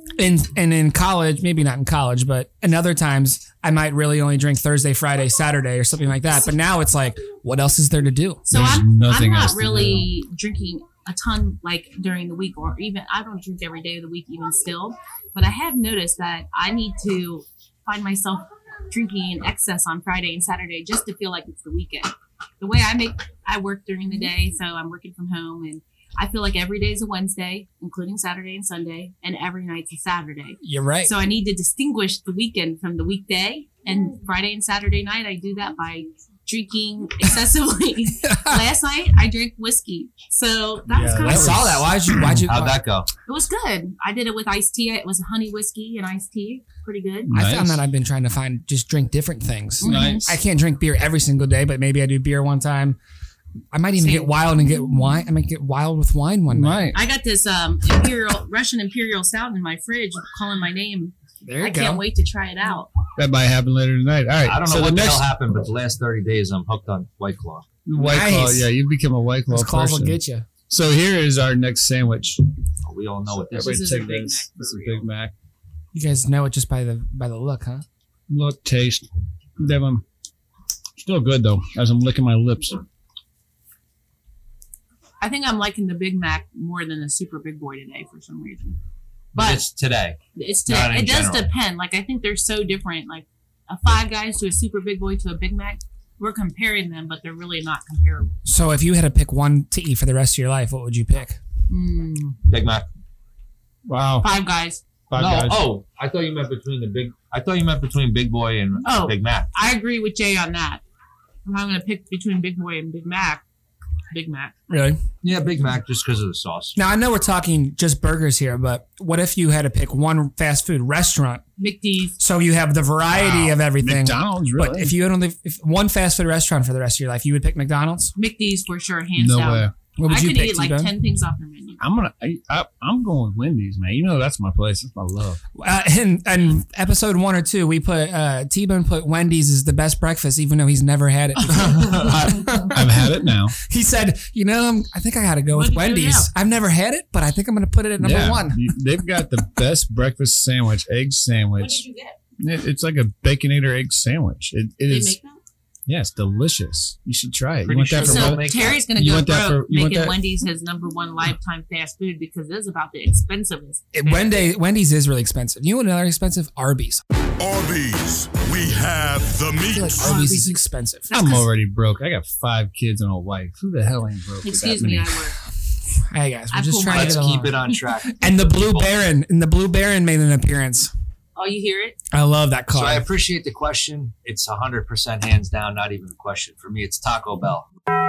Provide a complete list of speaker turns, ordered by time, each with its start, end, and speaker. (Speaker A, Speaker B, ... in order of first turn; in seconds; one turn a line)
Speaker A: 0.2-8.5
Speaker B: 8.5-41.8
Speaker C: 8.5-10.1
Speaker A: 30.6-31.1
Speaker A: 38.2-38.6
Speaker C: 40.9-42.5
Speaker A: 41.2-42.8
Speaker D: 42.5-43.1
Speaker B: 43.3-47.3
Speaker C: 47.3-47.8
Speaker A: 47.3-53.0
Speaker B: 49.8-50.3
Speaker C: 49.8-50.4
Speaker A: 53.7-56.9
Speaker B: 54.0-54.4
Speaker C: 56.5-57.0
Speaker B: 56.9-62.9
Speaker A: 61.5-62.0
Speaker C: 63.2-65.3
Speaker D: 64.5-67.7
Speaker C: 67.9-72.5
Speaker A: 68.0-68.7
Speaker A: 69.5-70.5
Speaker D: 72.8-73.8
Speaker C: 73.5-75.3
Speaker B: 73.6-75.1
Speaker A: 75.9-77.8
Speaker C: 78.3-80.0
Speaker C: 81.0-82.8
Speaker B: 85.2-88.8
Speaker D: 89.3-91.5
Speaker B: 89.3-89.6
Speaker B: 90.3-98.3
Speaker A: 98.5-101.4
Speaker B: 101.7-102.4
Speaker D: 102.5-102.9
Speaker C: 103.9-104.3
Speaker B: 104.2-104.8
Speaker C: 105.1-105.6
Speaker D: 105.2-109.5
Speaker B: 108.8-110.8
Speaker B: 111.5-113.5
Speaker B: 114.1-114.5
Speaker A: 114.7-115.0
Speaker D: 115.2-116.8
Speaker A: 116.8-121.4
Speaker B: 121.6-122.2
Speaker A: 122.2-128.1
Speaker C: 123.1-125.0
Speaker B: 128.2-131.8
Speaker C: 129.2-129.8
Speaker A: 130.0-130.9
Speaker C: 131.8-135.4
Speaker A: 135.6-148.6
Speaker C: 141.6-143.6
Speaker B: 145.5-146.3
Speaker C: 148.0-151.8
Speaker B: 151.6-152.2
Speaker C: 152.4-155.2
Speaker B: 154.9-155.4
Speaker C: 155.9-160.2
Speaker D: 157.7-158.8
Speaker B: 158.0-164.4
Speaker A: 163.9-167.0
Speaker E: 167.4-170.4
Speaker A: 169.7-171.4
Speaker C: 170.0-170.4
Speaker C: 171.1-175.2
Speaker B: 174.4-175.4
Speaker A: 176.1-177.6
Speaker B: 176.5-177.3
Speaker D: 176.9-179.0
Speaker A: 178.2-180.9
Speaker B: 181.4-182.0
Speaker A: 182.1-183.1
Speaker D: 182.7-187.7